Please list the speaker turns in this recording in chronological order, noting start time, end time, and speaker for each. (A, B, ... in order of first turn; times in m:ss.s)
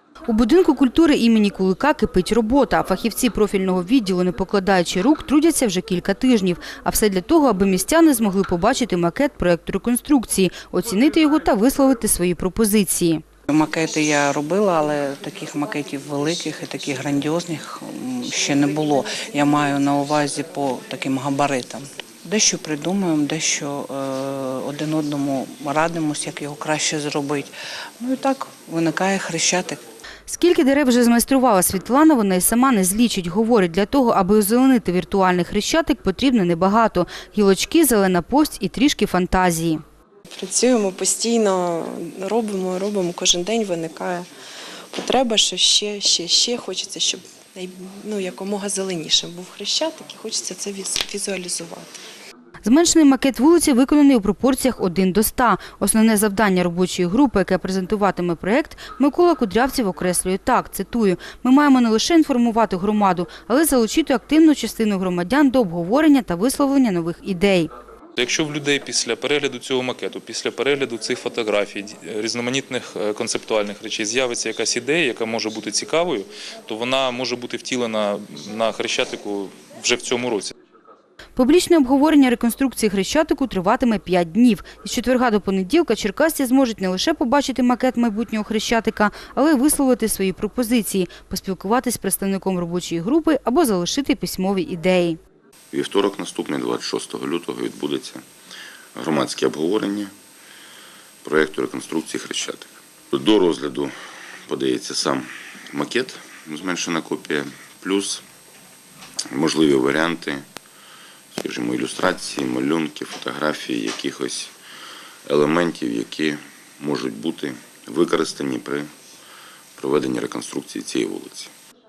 0:00.3-0:13.2 A
0:13.5-0:29.8 B
0:30.2-0:39.8 A
0:40.3-0:44.3 C
0:44.9-0:52.0 C
0:52.6-1:07.7 A
1:08.2-1:20.5 D
1:21.4-1:35.2 A
1:35.7-1:38.2 E
1:39.0-1:40.1 E
1:41.2-1:43.9 E
1:44.5-1:48.2 E
1:49.3-1:50.4 E
1:51.3-1:54.5 E
1:55.3-1:58.9 E
1:59.8-2:01.5 E